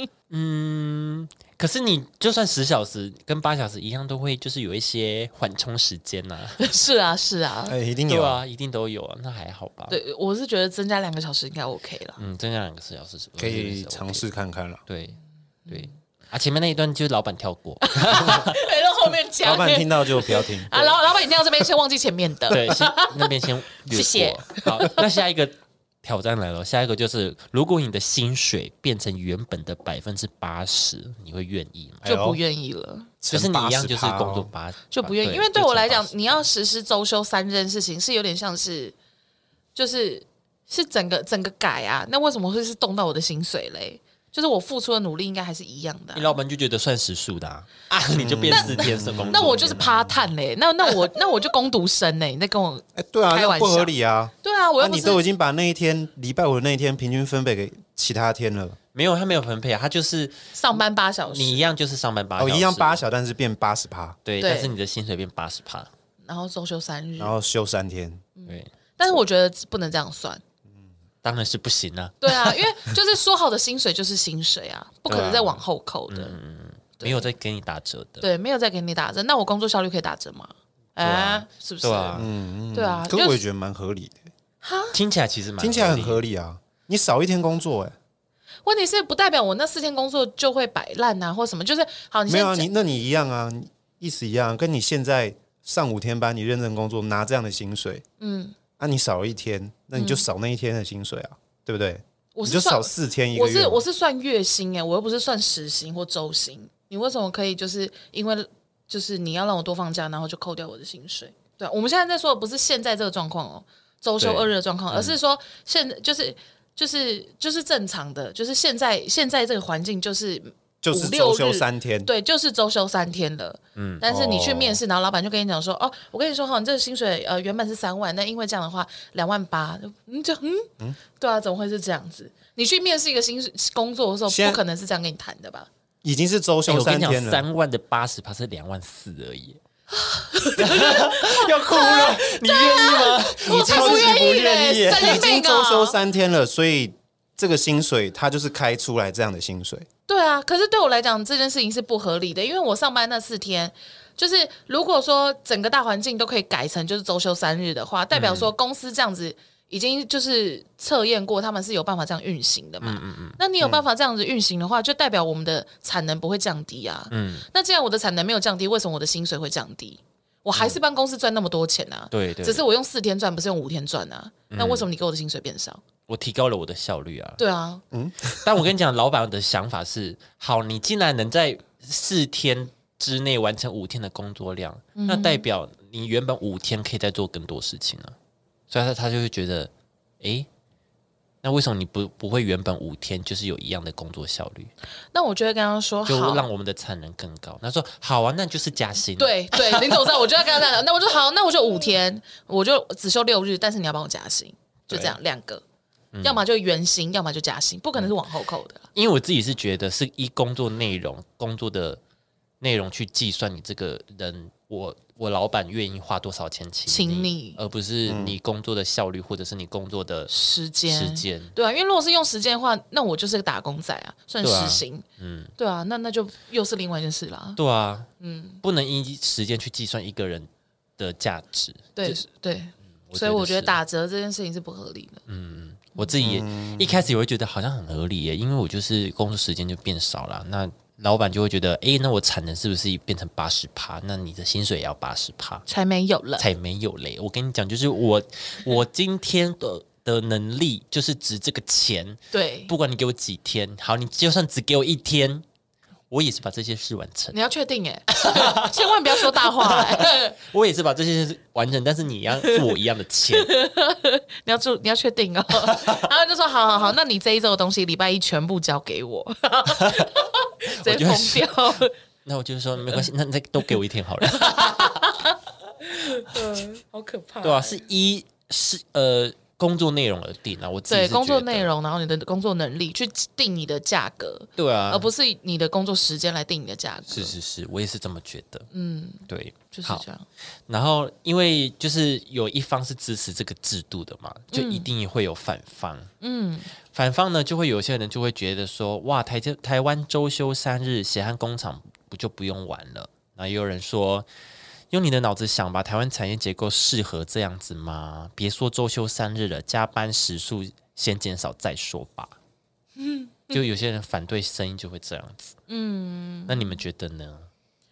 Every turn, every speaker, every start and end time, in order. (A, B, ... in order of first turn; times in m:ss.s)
0:00.3-0:06.6 A
0:06.6-0:07.8 B
0:07.7-0:08.4 C
0:08.1-0:10.0 A
0:09.9-0:12.2 B
0:12.2-0:14.2 A
0:13.4-0:14.8 C
0:14.9-0:18.6 A
0:17.8-0:25.0 B
0:19.4-0:20.9 C
0:22.5-0:32.0 A
0:32.0-0:32.4 C
0:32.0-0:33.1 B
0:33.2-0:34.5 C
0:33.3-0:36.4 A
0:34.9-0:38.9 B
0:39.7-0:46.4 B
0:46.1-0:49.8 A
0:48.1-0:50.1 C
0:48.5-0:55.2 B
0:53.0-0:58.8 C
0:58.9-1:03.0 A
1:00.5-1:01.6 B
1:02.4-1:04.2 C
1:04.2-1:05.9 A
1:04.4-1:04.7 B
1:06.2-1:07.3 B
1:07.2-1:08.2 C
1:08.4-1:10.4 B
1:11.2-1:12.6 A
1:12.2-1:16.4 B
1:15.1-1:18.3 A
1:17.0-1:17.3 B
1:18.2-1:22.2 B
1:21.1-1:21.4 C
1:21.8-1:22.3 A
1:22.2-1:24.2 C
1:22.7-1:23.4 B
1:24.6-1:25.0 B
1:24.9-1:26.2 A
1:25.6-1:28.0 C
1:28.6-1:32.7 B
1:32.3-1:38.0 C
1:38.2-1:38.6 B
1:38.8-1:43.8 C
1:40.0-1:40.2 B
1:42.3-2:15.7 B
1:54.2-1:55.2 A
2:00.8-2:02.1 C
2:03.8-2:04.0 A
2:04.0-2:04.8 C
2:14.3-2:14.6 C
2:16.0-2:17.4 C
2:16.7-2:19.6 A
2:19.9-2:26.0 B
2:20.6-2:25.2 A
2:23.4-2:29.9 C
2:30.1-2:55.8 B
2:38.1-2:38.5 A
2:42.8-2:43.4 A
2:47.1-2:47.5 A
2:52.1-2:52.6 A
2:54.5-2:54.9 A
2:56.1-2:57.4 A
2:57.4-2:57.8 B
2:57.9-2:58.7 C
2:58.4-3:08.1 A
3:05.0-3:05.4 B
3:08.7-3:09.7 A
3:10.2-3:10.5 A
3:11.4-3:14.7 A
3:15.1-3:16.5 B
3:16.0-3:20.3 A
3:19.2-3:25.6 B
3:24.9-3:25.2 A
3:26.1-3:26.4 A
3:26.2-3:28.9 B
3:28.9-3:32.0 A
3:32.6-3:40.3 A
3:36.9-3:37.6 B
3:38.1-3:38.4 C
3:40.3-3:45.0 B
3:40.9-3:41.5 A
3:44.4-3:45.5 A
3:45.6-3:47.6 B
3:47.6-3:48.1 A
3:48.2-3:48.6 B
3:48.6-3:52.2 A
3:52.0-3:55.2 B
3:53.1-3:53.8 A
3:55.3-4:05.6 A
3:56.2-3:57.0 C
4:05.7-4:06.4 B
4:06.4-4:15.4 A
4:12.3-4:12.7 B
4:16.1-4:17.4 A
4:17.3-4:20.3 B
4:18.1-4:23.5 A
4:23.3-4:31.9 B
4:25.6-4:26.1 A
4:29.7-4:30.1 A
4:30.8-4:35.0 A
4:34.2-4:37.9 B
4:37.4-4:41.7 A
4:40.9-4:47.3 B
4:44.6-4:45.1 A
4:47.1-4:48.7 A
4:48.7-4:50.2 B
4:49.3-4:50.0 A
4:50.7-4:56.1 A
4:54.5-4:54.9 B
4:56.2-4:56.7 B
4:56.9-5:04.3 A
5:04.9-5:12.4 A
5:13.0-5:13.6 B
5:13.5-5:15.6 A
5:15.7-5:16.8 B
5:16.5-5:17.5 A